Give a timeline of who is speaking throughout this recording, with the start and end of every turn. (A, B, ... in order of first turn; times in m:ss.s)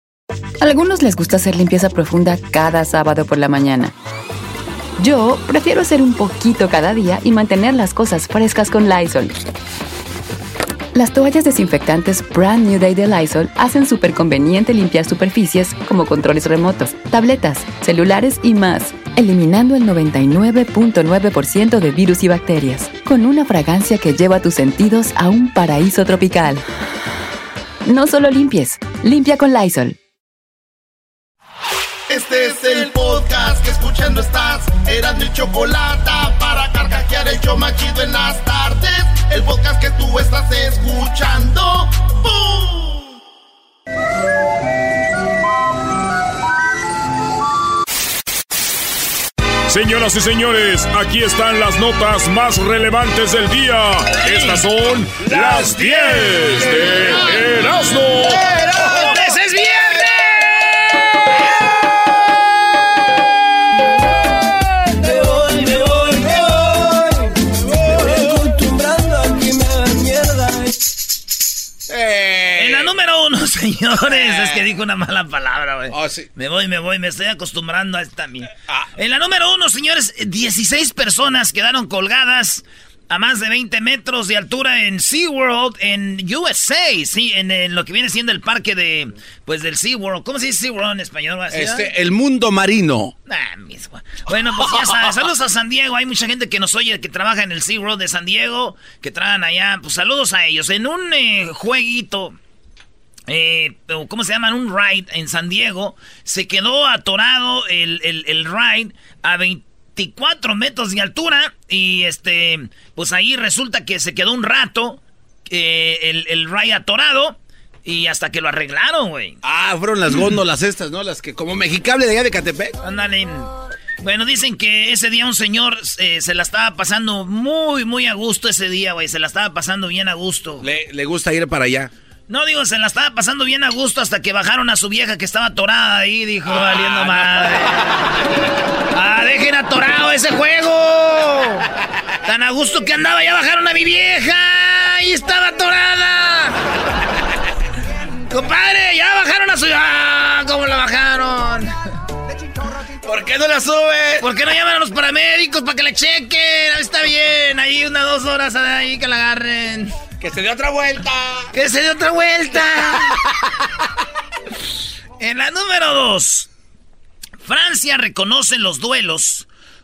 0:00.6-0:03.9 A
0:05.0-0:09.4 A
0:10.9-0:26.6 A
0:27.9-0:30.0 A
0:32.1-0:43.1 B
0:49.7-0:58.5 C
0:54.2-0:54.6 D
0:55.3-0:57.2 D
0:58.8-1:00.8 D
1:07.8-1:08.8 E
1:11.9-1:12.9 E
1:12.6-1:31.9 D
1:14.1-1:14.6 E
1:15.9-1:16.3 E
1:31.5-1:33.1 E
1:33.3-1:42.4 D
1:43.3-1:59.4 D
1:59.4-2:02.7 E
2:02.8-2:03.5 D
2:04.0-2:10.7 D
2:10.6-2:11.9 E
2:12.3-2:17.9 D
2:16.5-2:17.7 E
2:18.9-2:21.7 D
2:22.2-2:26.6 D
2:28.3-2:31.7 D
2:32.8-2:34.3 E
2:34.2-2:40.0 D
2:40.2-2:41.5 E
2:41.5-2:43.1 D
2:45.2-2:46.5 D
2:47.4-2:49.5 D